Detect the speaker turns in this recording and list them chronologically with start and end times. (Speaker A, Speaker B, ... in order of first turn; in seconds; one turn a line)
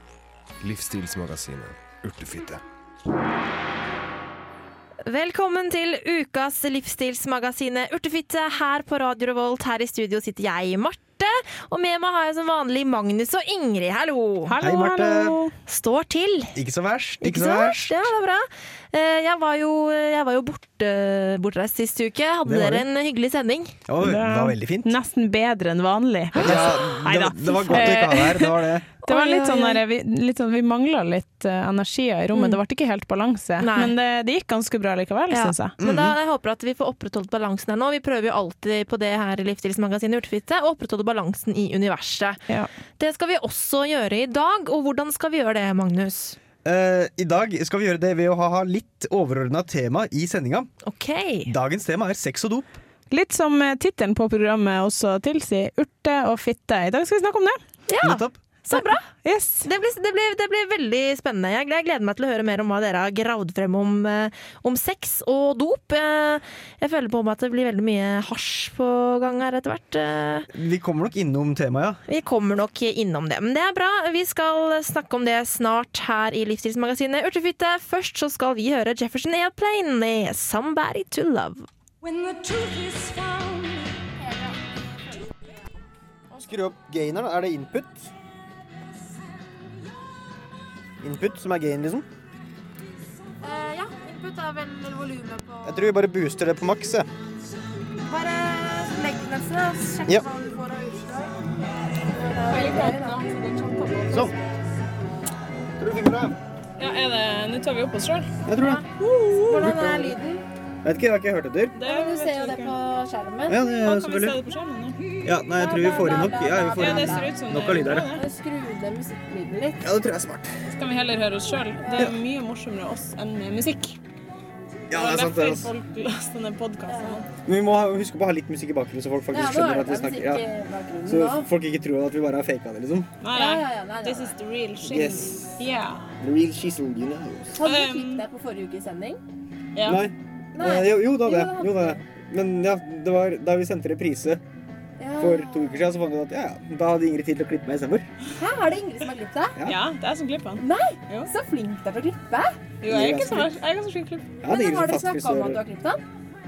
Speaker A: 0.6-2.6
Speaker B: 5.1-14.5
Speaker C: 14.5-15.5
Speaker D: 14.6-15.4
Speaker B: 15.7-16.6
Speaker D: 16.6-18.1
Speaker B: 17.2-23.8
Speaker D: 22.4-22.9
Speaker D: 23.9-24.9
Speaker C: 24.0-35.7
Speaker B: 26.3-26.7
Speaker D: 26.4-28.9
Speaker B: 27.7-28.0
Speaker B: 29.0-29.8
Speaker B: 33.6-33.9
Speaker B: 35.3-42.4
Speaker D: 35.8-36.2
Speaker B: 43.0-46.4
Speaker D: 46.6-50.7
Speaker B: 50.8-51.5
Speaker D: 51.5-52.8
Speaker C: 53.1-57.6
Speaker B: 57.9-59.1
Speaker D: 58.0-58.4
Speaker C: 58.7-59.7
Speaker B: 59.6-70.5
Speaker D: 70.5-72.0
Speaker B: 72.1-81.7
Speaker C: 82.6-83.3
Speaker E: 84.2-84.6
Speaker D: 86.4-88.1
Speaker D: 91.0-92.1
Speaker E: 93.4-95.8
Speaker D: 95.6-97.1
Speaker E: 98.0-101.3
Speaker E: 102.1-103.3
Speaker C: 102.5-104.3
Speaker D: 105.8-106.4
Speaker C: 106.8-108.3
Speaker D: 108.5-108.8
Speaker E: 108.6-110.4
Speaker D: 109.5-110.2
Speaker D: 110.8-111.8
Speaker C: 111.7-112.8
Speaker E: 111.8-113.6
Speaker D: 113.5-114.5
Speaker C: 113.8-115.0
Speaker D: 115.2-118.1
Speaker E: 115.5-117.3
Speaker C: 116.8-118.2
Speaker E: 118.1-119.9
Speaker D: 119.8-120.5
Speaker C: 120.7-124.0
Speaker D: 124.9-125.7
Speaker C: 124.9-127.3
Speaker E: 126.9-127.2
Speaker D: 127.5-130.4
Speaker E: 129.3-131.5
Speaker D: 131.1-133.2
Speaker C: 133.2-136.1
Speaker E: 133.3-134.3
Speaker D: 134.8-135.5
Speaker D: 136.2-137.6
Speaker E: 137.6-139.2
Speaker C: 137.6-138.2
Speaker C: 139.8-140.0
Speaker D: 139.8-144.4
Speaker E: 140.6-142.0
Speaker E: 145.0-145.6
Speaker D: 145.2-148.1
Speaker E: 148.4-149.6
Speaker C: 149.6-151.3
Speaker E: 150.6-152.6
Speaker C: 152.8-154.3
Speaker D: 152.8-153.6
Speaker D: 154.4-155.6
Speaker E: 154.4-156.0